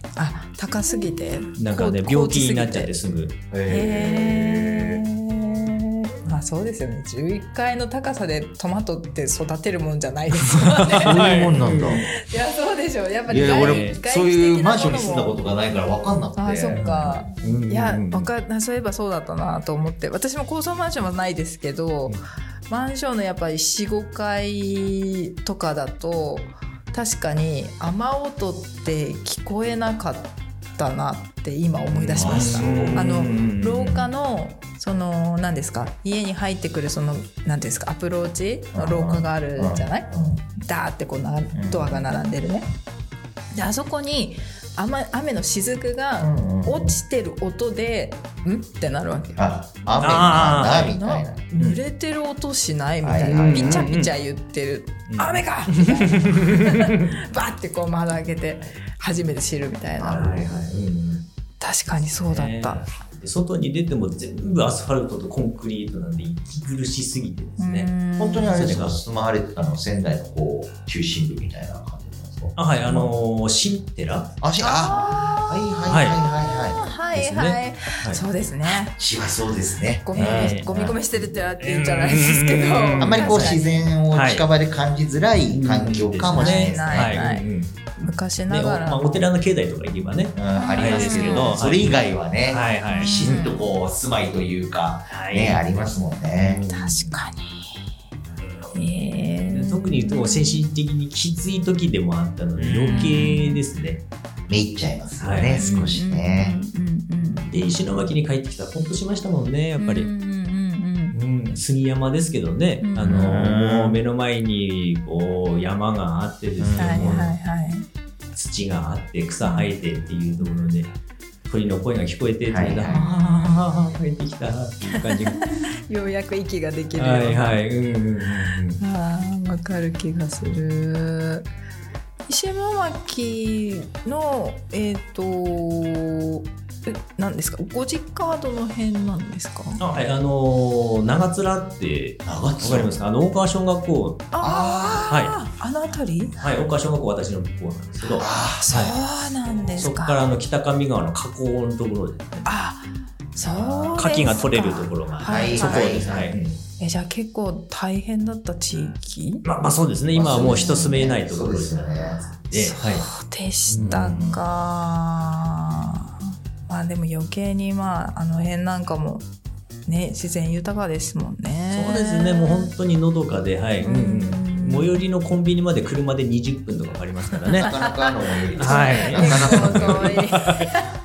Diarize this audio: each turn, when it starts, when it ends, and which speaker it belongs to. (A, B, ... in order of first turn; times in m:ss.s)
0:00.2-0:02.9 A
0:01.6-0:03.4 B
0:03.5-0:05.0 C
0:03.7-0:15.4 A
0:10.5-0:12.1 B
0:10.9-0:12.1 C
0:13.3-0:17.3 C
0:13.4-0:14.0 B
0:16.4-0:42.7 A
0:16.7-0:18.3 B
0:32.0-0:34.1 B
0:32.1-0:33.4 C
0:38.7-0:40.5 C
0:41.5-0:42.0 C
0:43.5-0:49.4 A
0:46.2-0:47.0 C
0:49.4-0:51.5 C
0:50.0-0:51.0 B
0:50.7-1:00.2 A
0:53.0-0:53.9 C
0:53.2-0:54.1 B
0:55.1-0:57.1 B
1:00.0-1:00.8 C
1:00.1-1:01.3 B
1:01.6-1:02.9 A
1:02.2-1:07.9 B
1:07.6-1:08.6 A
1:08.2-1:13.2 C
1:08.5-1:09.0 B
1:12.6-1:14.3 B
1:14.4-1:17.0 C
1:14.6-1:15.7 A
1:15.9-1:16.2 B
1:16.5-1:19.0 A
1:17.1-1:18.2 B
1:18.9-1:21.0 C
1:20.0-1:23.7 A
1:20.1-1:20.7 B
1:21.6-1:23.6 B
1:23.0-1:27.2 C
1:24.1-1:24.5 B
1:25.5-1:27.8 B
1:26.3-1:29.3 A
1:28.5-1:33.5 B
1:30.3-1:36.6 C
1:30.5-1:31.6 A
1:32.9-1:33.6 A
1:35.1-1:35.6 B
1:36.4-1:37.2 B
1:36.7-1:37.8 A
1:38.4-1:38.7 B
1:38.7-1:40.7 A
1:39.5-1:44.0 B
1:42.6-1:43.3 C
1:42.9-1:43.6 A
1:44.5-1:46.6 C
1:45.2-1:46.0 B
1:45.6-1:47.5 A
1:47.5-1:50.1 B
1:49.8-1:51.2 A
1:51.1-1:57.4 B
1:52.8-1:53.4 A
1:53.0-1:54.0 C
1:56.6-1:57.2 C
1:56.8-1:57.9 A
1:58.4-2:00.9 B
1:59.4-1:59.7 A
2:01.5-2:05.6 B
2:02.5-2:03.0 C
2:02.9-2:03.6 A
2:05.1-2:07.5 A
2:07.0-2:08.8 B
2:08.8-2:11.5 A
2:12.3-2:19.8 A
2:19.8-2:24.3 B
2:22.2-2:22.9 C
2:24.3-2:26.4 A
2:24.4-2:25.2 C
2:25.1-2:25.4 B
2:26.4-2:29.0 B
2:28.2-2:28.8 C
2:28.6-2:30.2 A
2:29.7-2:32.5 B
2:32.4-2:36.2 A
2:33.4-2:34.1 C
2:34.0-2:36.6 B
2:35.2-2:36.3 C
2:36.8-2:39.4 A
2:39.4-2:43.1 B
2:40.1-2:42.2 C
2:40.6-2:40.9 A
2:42.5-2:49.3 A
2:43.7-2:44.4 B
2:43.9-2:44.3 C
2:49.9-2:52.7 A
2:51.7-2:57.7 B
2:53.8-2:55.0 A
2:57.5-3:00.9 A
2:57.6-3:00.4 C
2:58.6-3:00.7 B